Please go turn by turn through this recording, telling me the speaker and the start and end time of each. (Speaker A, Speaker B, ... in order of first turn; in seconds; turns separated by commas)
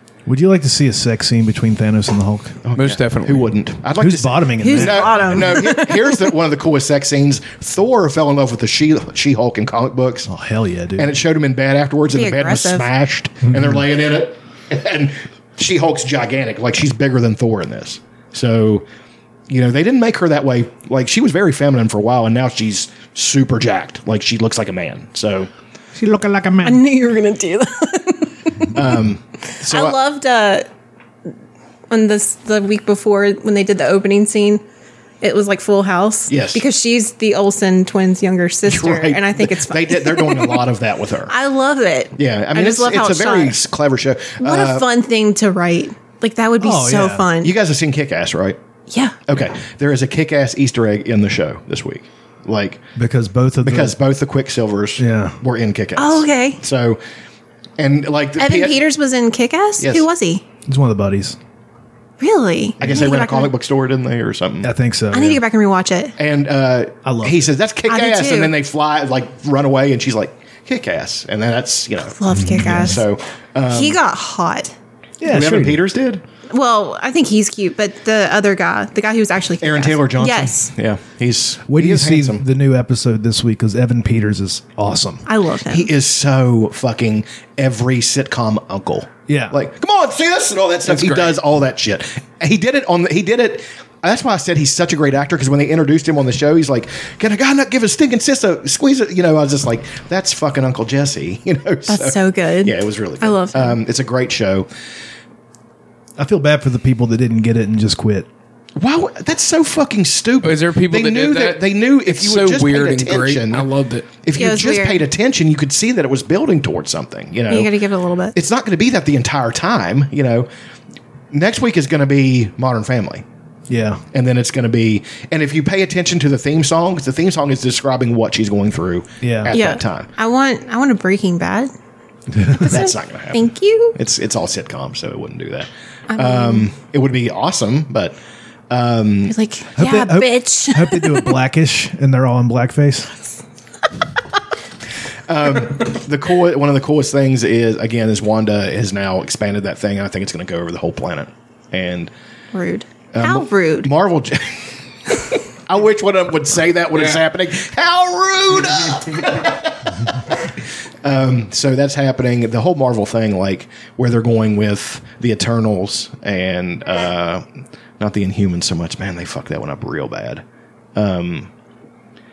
Speaker A: 0.2-2.6, Speaker B: 2.6-10.3, Speaker C: 2.7-3.5, Speaker A: 4.0-5.5, Speaker D: 4.6-6.3, Speaker A: 10.2-11.1, Speaker B: 11.0-18.9, Speaker D: 12.1-12.8, Speaker B: 19.5-25.5, Speaker A: 25.9-26.8, Speaker D: 26.6-28.5, Speaker B: 28.7-30.0, Speaker D: 29.6-30.7, Speaker D: 31.9-34.6, Speaker D: 35.2-40.6, Speaker B: 36.3-36.6, Speaker B: 38.6-41.3, Speaker D: 41.3-43.5, Speaker B: 42.1-44.9, Speaker D: 44.4-47.5, Speaker A: 46.6-47.3, Speaker B: 47.4-48.6, Speaker D: 48.9-49.2, Speaker B: 49.3-52.8, Speaker A: 53.0-53.9, Speaker B: 53.6-57.0, Speaker A: 55.0-55.4, Speaker D: 56.0-56.6, Speaker B: 57.8-58.8, Speaker D: 58.4-60.4, Speaker B: 59.8-60.1, Speaker A: 60.6-61.4, Speaker D: 62.2-63.5, Speaker B: 62.8-64.7, Speaker A: 64.6-65.4, Speaker D: 65.1-66.2, Speaker B: 66.2-74.0, Speaker A: 67.0-67.5, Speaker D: 67.9-68.5, Speaker D: 72.2-73.0, Speaker A: 72.3-73.0, Speaker D: 73.7-74.7, Speaker A: 75.2-75.8, Speaker B: 75.2-76.2, Speaker D: 76.5-80.7, Speaker B: 79.6-82.4, Speaker A: 81.7-85.2, Speaker D: 85.3-85.9, Speaker B: 85.7-104.7, Speaker A: 89.3-89.6, Speaker C: 90.8-91.4, Speaker D: 101.9-103.8, Speaker A: 106.2-108.3, Speaker B: 108.8-113.7, Speaker C: 110.4-114.1, Speaker B: 114.2-117.7, Speaker D: 114.3-115.0, Speaker D: 117.5-118.3, Speaker B: 118.3-120.5, Speaker B: 121.3-123.2, Speaker A: 123.7-124.0, Speaker B: 124.1-130.1, Speaker A: 129.2-129.5, Speaker D: 129.5-131.7, Speaker A: 132.3-132.7, Speaker D: 132.6-133.9, Speaker B: 132.7-138.2, Speaker D: 136.1-136.7, Speaker B: 138.7-139.3, Speaker D: 139.3-141.3, Speaker A: 139.8-143.1, Speaker B: 145.3-152.1, Speaker D: 152.5-153.9, Speaker B: 153.1-167.4, Speaker B: 168.0-170.4, Speaker B: 170.9-171.5